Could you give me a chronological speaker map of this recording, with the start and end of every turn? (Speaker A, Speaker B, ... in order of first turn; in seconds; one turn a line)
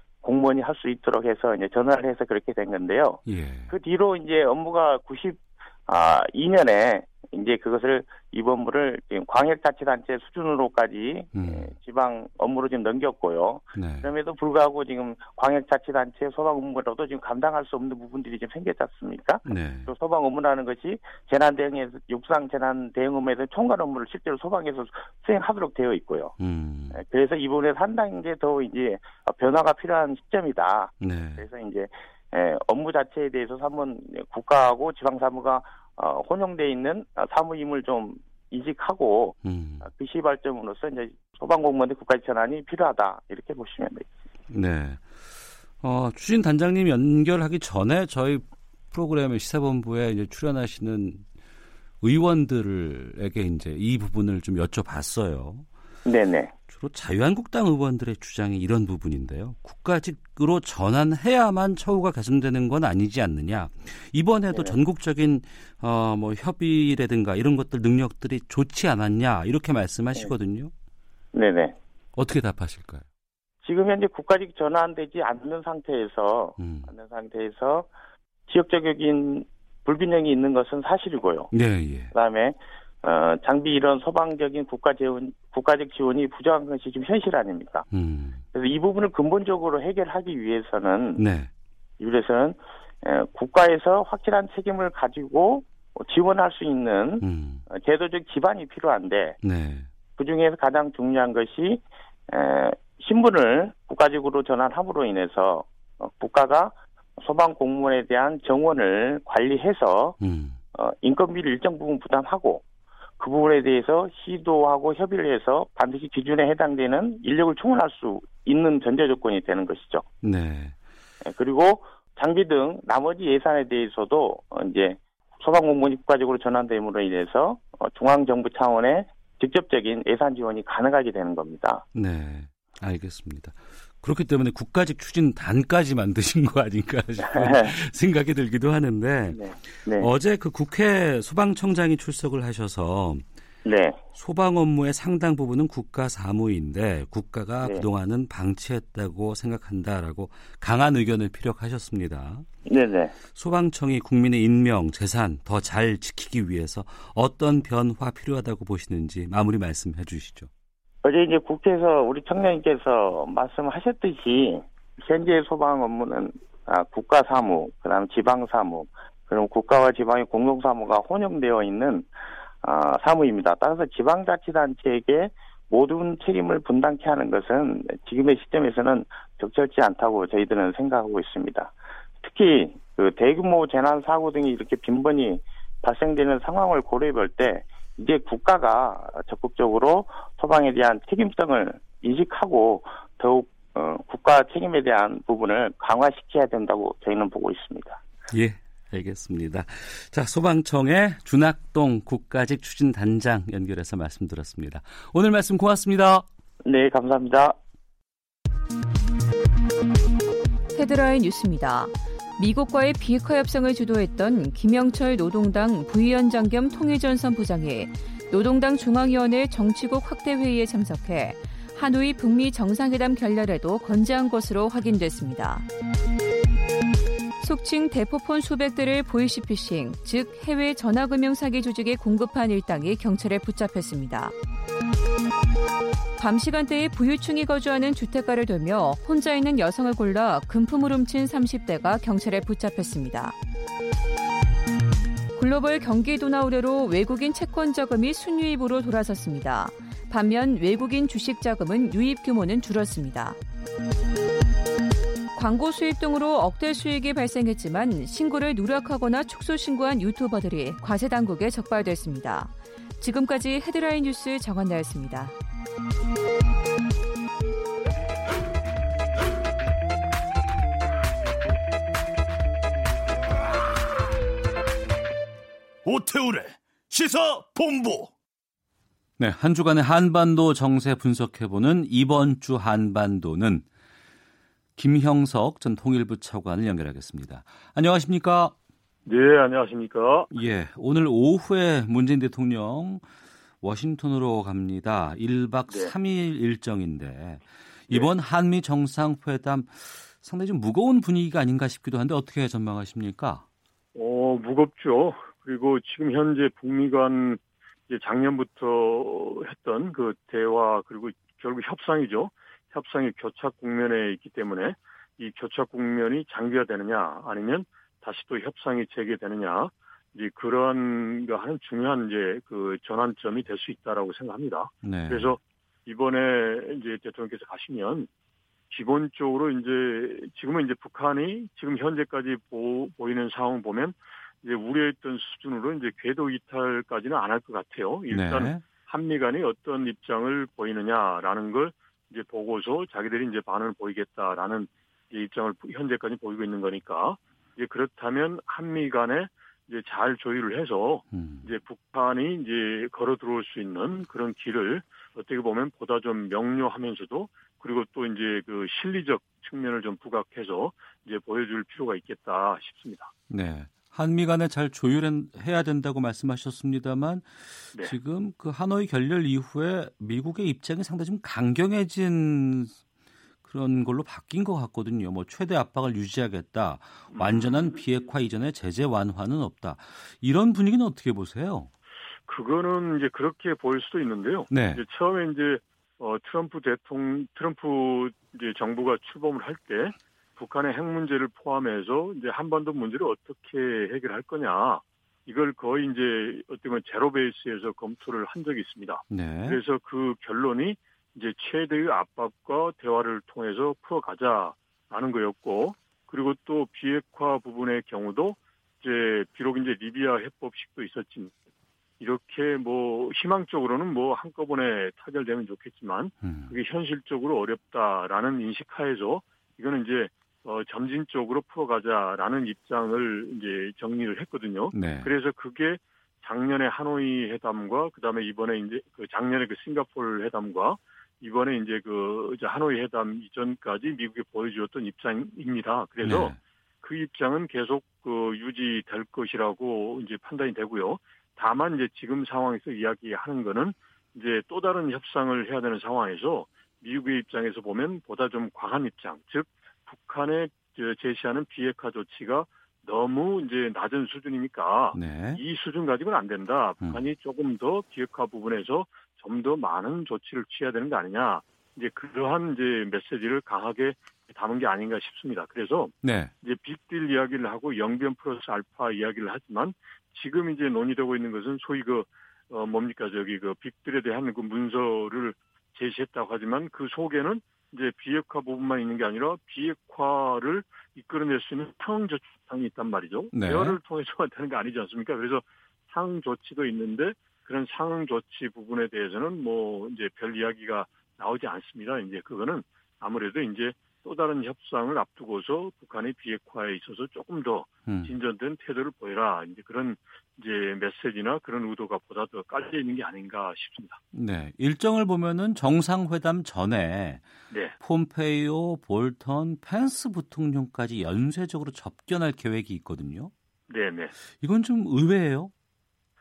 Speaker A: 0.2-26.3
Speaker B: 3.3-3.7
Speaker B: 11.3-11.7
Speaker B: 13.8-14.1
Speaker B: 19.5-19.9
Speaker B: 26.4-27.0
Speaker A: 26.9-44.1
Speaker B: 31.0-31.5
Speaker B: 39.4-39.9
Speaker B: 44.5-45.1
Speaker B: 45.8-51.2
Speaker B: 52.0-55.7
Speaker A: 56.1-56.5
Speaker B: 56.7-70.7
Speaker A: 64.5-64.8
Speaker A: 71.3-71.8
Speaker B: 72.2-73.1
Speaker A: 73.6-77.9
Speaker B: 76.6-76.9
Speaker A: 78.5-81.5
Speaker B: 81.5-82.1
Speaker A: 82.1-87.9
Speaker B: 87.9-88.4
Speaker A: 88.5-91.2
Speaker B: 91.2-91.5
Speaker A: 92.0-99.4
Speaker B: 97.2-97.6
Speaker B: 99.4-99.9
Speaker A: 100.2-110.2
Speaker B: 110.2-110.6
Speaker A: 110.8-112.6
Speaker A: 113.2-120.1
Speaker B: 120.2-120.8
Speaker A: 121.2-131.8
Speaker B: 131.9-139.4
Speaker A: 137.3-137.7
Speaker A: 139.3-140.1
Speaker B: 140.0-143.2
Speaker A: 143.7-144.0
Speaker B: 144.2-152.5
Speaker A: 152.7-153.2
Speaker B: 153.3-160.5
Speaker A: 161.0-172.1
Speaker A: 172.6-198.0
Speaker B: 198.3-206.3
Speaker A: 206.7-207.6
Speaker C: 210.7-225.7
Speaker C: 227.4-234.3
Speaker C: 236.2-243.4
Speaker C: 245.4-253.4
Speaker C: 255.3-265.4
Speaker D: 275.9-278.1
Speaker B: 279.2-283.6
Speaker B: 284.8-288.5
Speaker E: 289.1-290.3
Speaker B: 290.3-293.0
Speaker B: 293.6-303.4
Speaker E: 303.9-328.1
Speaker B: 324.8-325.4
Speaker E: 328.7-363.1
Speaker B: 338.1-338.6
Speaker B: 351.1-351.5
Speaker B: 363.3-372.8
Speaker B: 373.4-381.7
Speaker E: 377.1-377.8
Speaker E: 382.3-411.3
Speaker B: 384.5-384.8
Speaker B: 399.1-399.6
Speaker E: 412.0-504.0
Speaker B: 416.2-416.5
Speaker B: 424.7-425.1
Speaker B: 436.0-436.4
Speaker B: 454.9-455.4
Speaker B: 466.0-466.3
Speaker B: 483.3-483.8
Speaker B: 497.9-498.1
Speaker B: 504.1-507.3
Speaker B: 507.8-513.3
Speaker E: 513.7-514.1
Speaker B: 514.4-515.5